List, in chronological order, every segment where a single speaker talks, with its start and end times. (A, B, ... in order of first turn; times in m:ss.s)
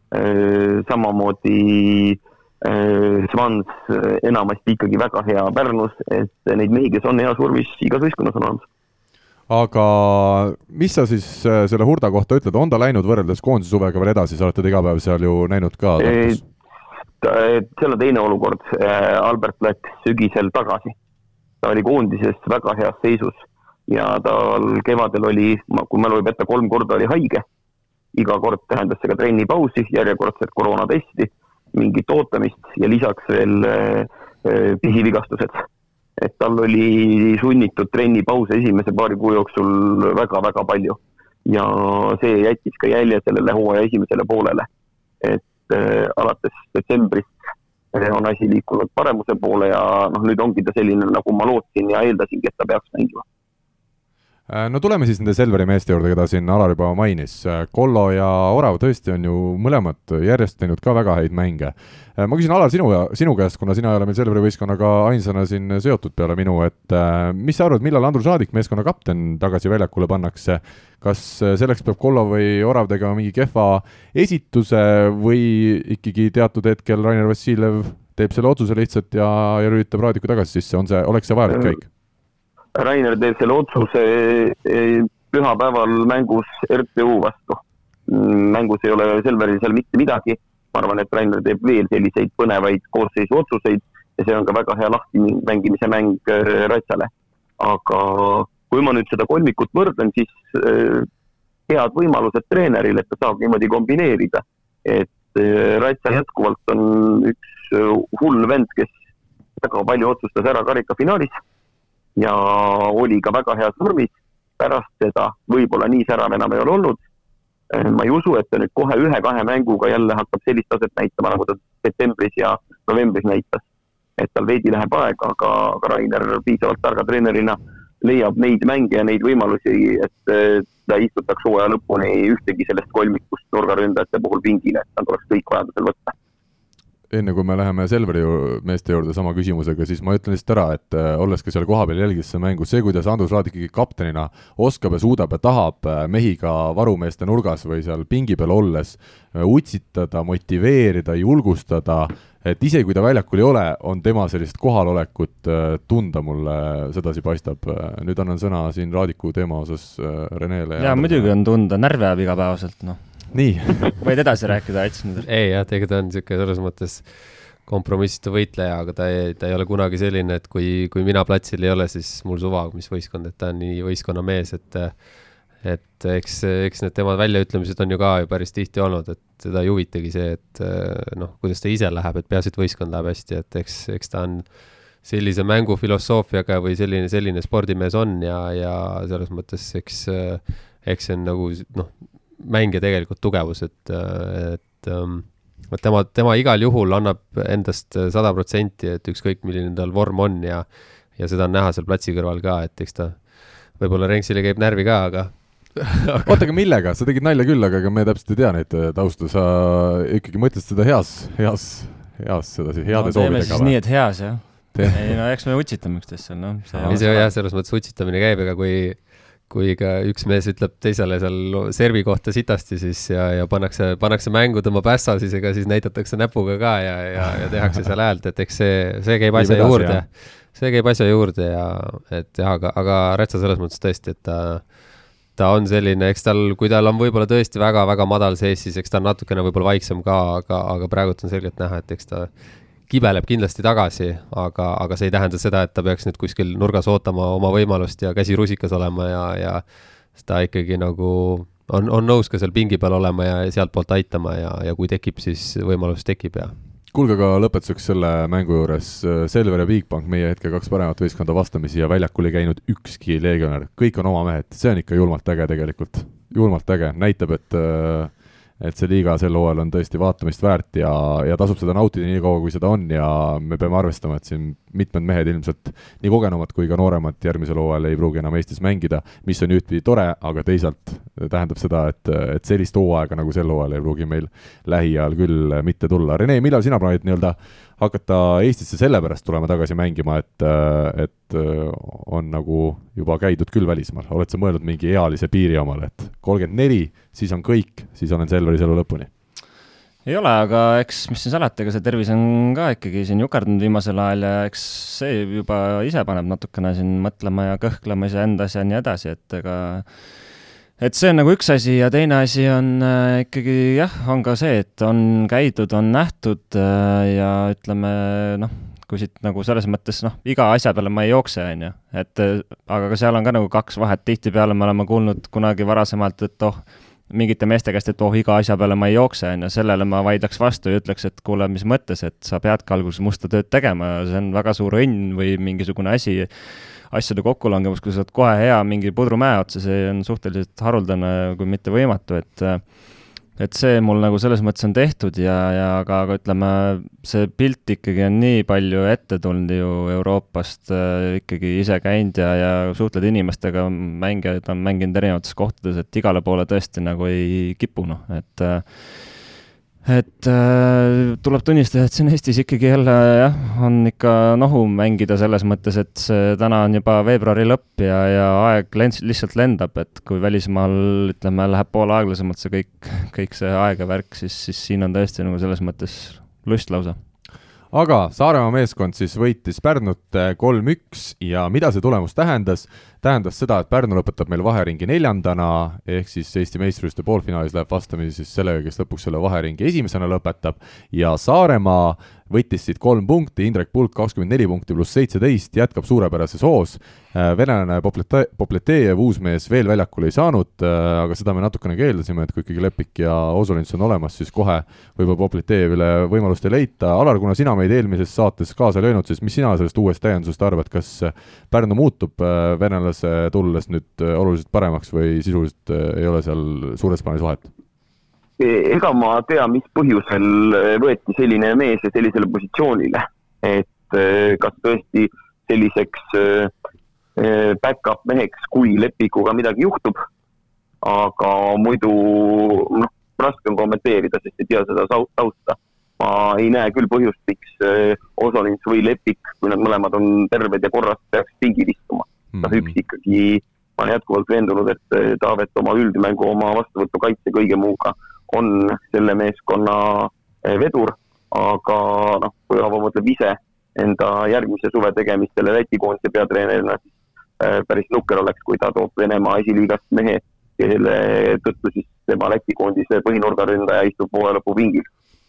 0:00.1-0:08.6 A
0:09.5-0:16.4 B
0:16.0-0:16.4 A
0:17.2-0:20.9 A
0:21.6-0:27.4 A
0:28.1-0:35.6 A
0:36.2-0:44.7 A
0:45.2-0:47.3 A
0:47.9-0:53.2 A
0:54.5-1:21.8 B
1:22.8-1:41.1 A
1:41.7-1:48.9 A
1:49.6-1:51.4 A
1:52.2-1:57.0 A
1:57.7-2:03.6 A
2:04.2-2:16.1 A
2:17.1-2:41.3 B
2:40.8-2:43.4 C
2:43.3-2:44.0 B
2:44.0-2:45.2 C
2:45.2-3:26.4 D
3:26.2-3:33.9 B
3:32.9-3:37.3 C
3:34.7-3:35.2 B
3:36.7-3:37.0 B
3:36.8-4:02.3 D
3:49.3-3:50.0 B
4:02.8-4:16.5 D
4:16.9-4:59.1 B
5:00.0-6:17.0 C
6:17.7-6:57.5 B
6:58.4-7:06.5 A
7:07.2-7:10.0 A
7:10.8-7:36.9 A
7:22.3-7:22.7 B
7:37.4-7:44.9 A